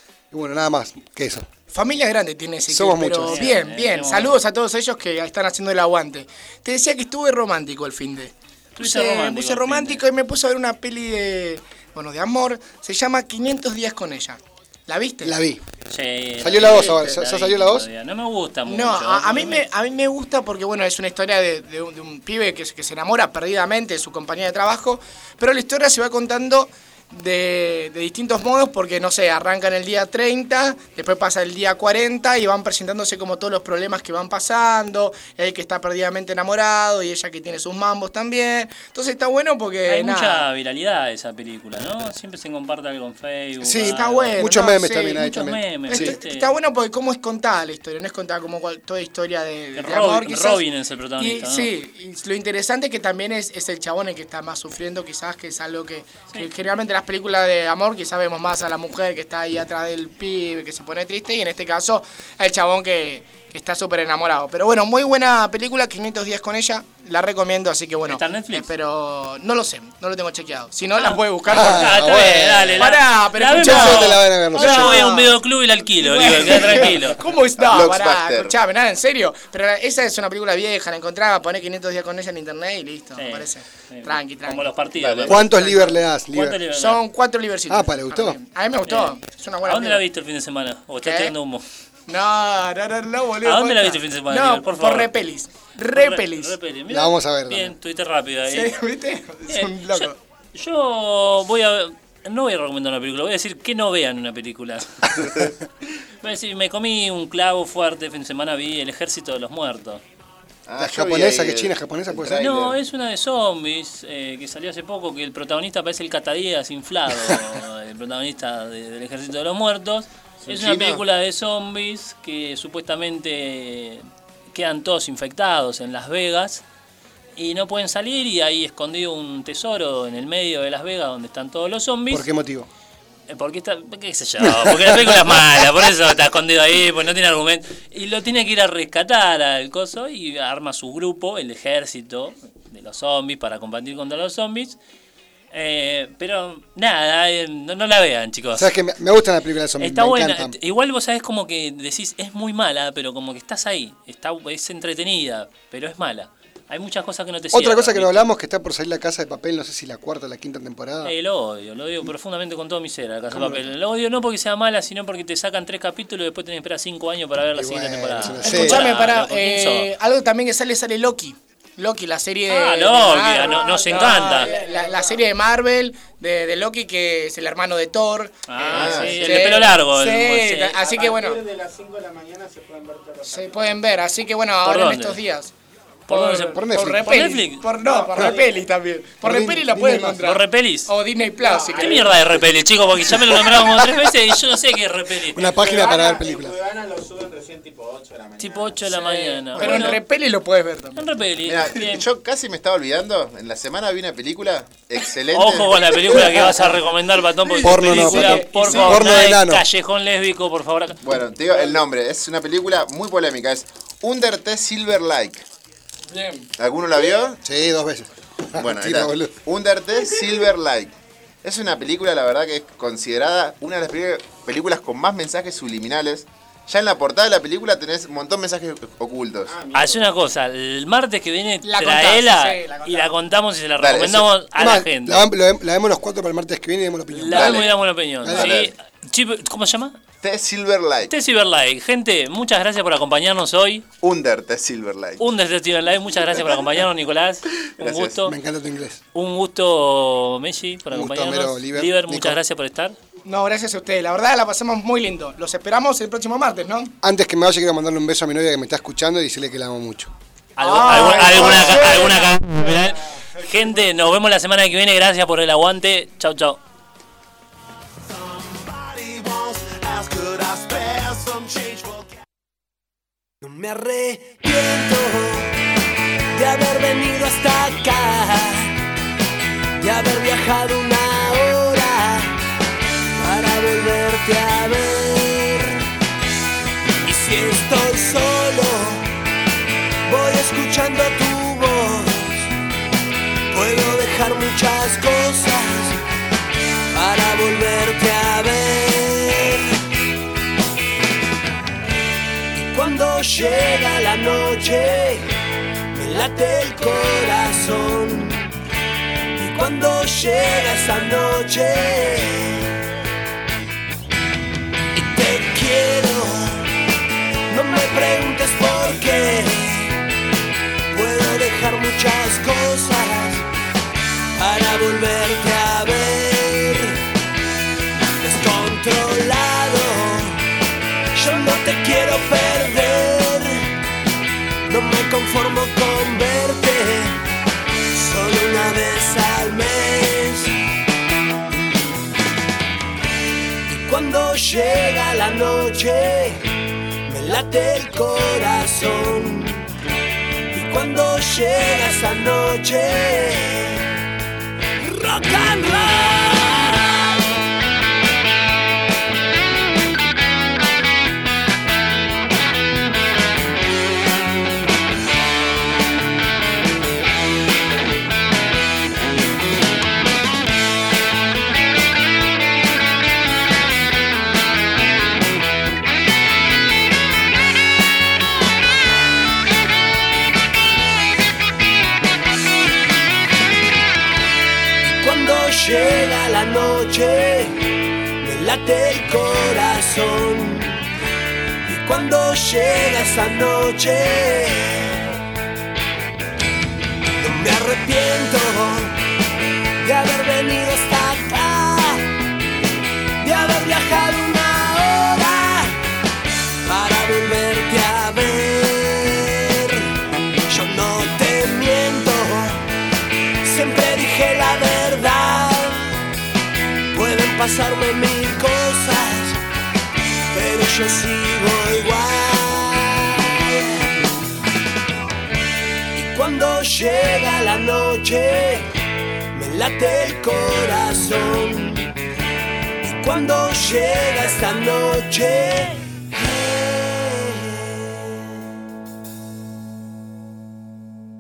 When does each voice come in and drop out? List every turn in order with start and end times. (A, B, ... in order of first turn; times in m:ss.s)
0:00.3-0:01.5 A
0:01.7-0:15.4 B
0:02.7-0:03.4 A
0:03.2-0:04.4 C
0:08.8-0:10.0 C
0:15.2-0:15.6 A
0:15.9-0:19.6 C
0:16.4-0:17.9 A
0:18.7-0:40.4 B
0:39.9-0:44.5 C
0:43.6-0:46.2 A
0:43.8-0:50.6 B
0:45.2-0:46.5 C
0:49.8-0:51.7 C
0:51.2-1:15.4 B
1:08.1-1:08.7 C
1:11.0-1:17.2 C
1:11.5-1:12.9 A
1:13.5-1:15.2 A
1:16.0-1:24.7 B
1:17.6-1:18.5 D
1:23.2-1:27.0 C
1:25.0-1:25.4 D
1:25.3-1:26.6 A
1:26.7-1:30.0 B
1:27.7-1:28.4 A
1:28.9-1:31.6 C
1:31.0-1:31.3 B
1:32.1-1:36.6 B
1:33.4-1:35.1 C
1:35.9-1:38.7 C
1:36.9-1:37.8 A
1:38.5-1:40.2 B
1:39.5-1:45.5 C
1:46.2-1:50.0 C
1:50.7-1:52.8 D
1:50.8-1:52.7 A
1:52.4-2:06.6 C
2:00.4-2:01.0 D
2:07.4-2:12.2 C
2:12.1-2:12.7 A
2:13.3-2:24.8 C
2:14.6-2:15.1 A
2:25.5-2:28.7 C
2:28.6-2:30.6 A
2:29.8-2:38.2 C
2:37.5-2:41.1 A
2:41.0-2:49.9 C
2:43.3-2:43.7 A
2:47.6-2:48.9 A
2:48.4-3:01.4 B
2:52.5-2:54.6 C
2:53.7-2:55.0 E
2:58.5-3:00.8 C
2:58.7-2:59.5 D
3:00.8-3:03.5 E
3:03.2-3:05.5 B
3:04.6-3:05.2 C
3:06.1-3:07.6 C
3:06.1-3:12.2 B
3:06.6-3:07.2 A
3:08.2-3:08.4 A
3:09.2-3:10.2 A
3:10.2-3:10.9 C
3:11.5-3:12.1 E
3:11.8-3:15.8 C
3:13.1-3:13.9 A
3:15.3-3:16.6 A
3:15.6-3:18.7 E
3:18.4-3:20.0 C
3:18.9-3:21.0 B
3:21.0-3:22.1 C
3:21.4-3:26.2 D
3:25.3-3:31.0 C
3:27.5-3:29.1 B
3:27.6-3:29.7 A
3:31.0-3:35.4 D
3:36.1-3:36.5 B
3:36.6-3:37.4 D
3:37.4-3:39.3 A
3:38.6-3:49.6 D
3:49.6-3:49.9 E
3:49.7-3:55.2 C
3:51.6-3:52.9 B
3:53.8-3:54.3 D
3:54.6-3:58.5 A
3:57.1-4:00.0 C
3:57.3-3:58.7 D
4:00.2-4:01.1 D
4:01.1-4:03.9 C
4:04.0-4:05.3 D
4:05.2-4:08.3 C
4:07.8-4:08.2 D
4:08.2-4:09.0 A
4:09.1-4:13.0 C
4:10.9-4:12.4 A
4:13.2-4:16.9 B
4:17.0-4:20.1 A
4:20.6-4:26.6 C
4:20.6-4:22.5 B
4:28.8-4:31.8 F
4:33.4-4:35.5 F
4:36.3-4:38.8 F
4:39.8-4:42.4 F
4:43.2-4:45.8 F
4:47.0-4:49.1 F
4:50.1-4:52.5 F
4:53.5-4:56.0 F
4:56.9-4:59.7 F
5:02.5-5:05.3 F
5:05.9-5:08.5 F
5:09.4-5:12.8 F
5:15.0-5:16.7 F
5:17.5-5:20.0 F
5:20.9-5:23.4 F
5:24.4-5:27.0 F
5:28.2-5:30.4 F
5:31.1-5:33.7 F
5:34.7-5:37.2 F
5:37.9-5:40.6 F
5:43.7-5:46.5 F
5:47.1-5:49.7 F
5:50.5-5:53.9 F
5:54.8-5:57.2 F
6:24.8-6:30.9 F
6:31.6-6:35.2 F
6:37.2-6:39.0 F
6:39.8-6:42.0 F
6:43.2-6:45.8 F
6:46.7-6:49.9 F
6:50.5-6:52.6 F
6:53.4-6:56.0 F
6:56.9-6:59.4 F
7:00.3-7:04.0 F
7:05.9-7:08.7 F
7:09.3-7:11.9 F
7:12.8-7:18.1 F